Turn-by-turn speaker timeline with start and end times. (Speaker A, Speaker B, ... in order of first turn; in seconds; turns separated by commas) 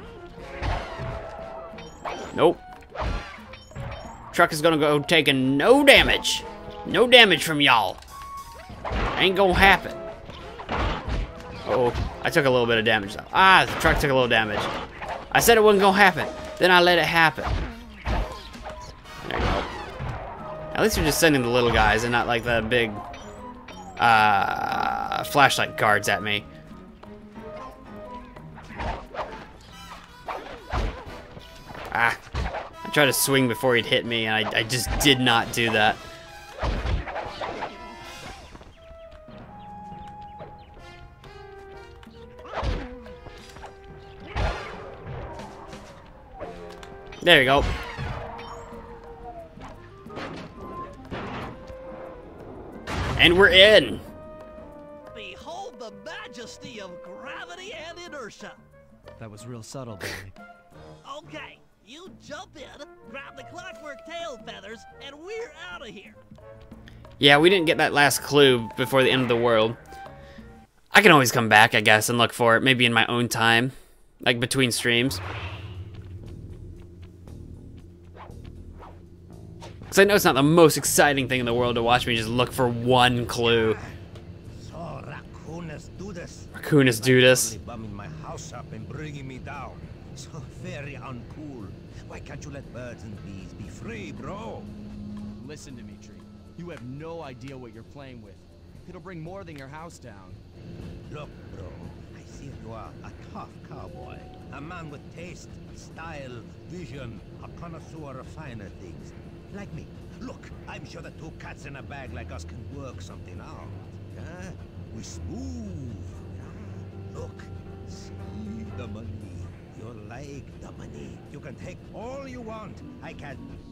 Speaker A: 2.3-2.6, Speaker A: 4.3-8.0, Speaker A: 9.1-10.0, Speaker A: 11.6-14.7, Speaker A: 15.3-17.6, Speaker A: 19.2-19.7, Speaker A: 20.7-23.0, Speaker A: 24.0-26.4, Speaker A: 31.9-32.2, Speaker A: 32.8-36.0, Speaker A: 47.2-47.7, Speaker A: 53.2-54.0, Speaker B: 55.1-58.6, Speaker C: 59.2-60.4, Speaker B: 61.0-66.2, Speaker A: 67.2-69.8, Speaker A: 70.9-75.2, Speaker A: 79.9-83.8, Speaker D: 84.6-94.7, Speaker A: 86.5-87.5, Speaker C: 95.3-100.4, Speaker D: 101.1-123.5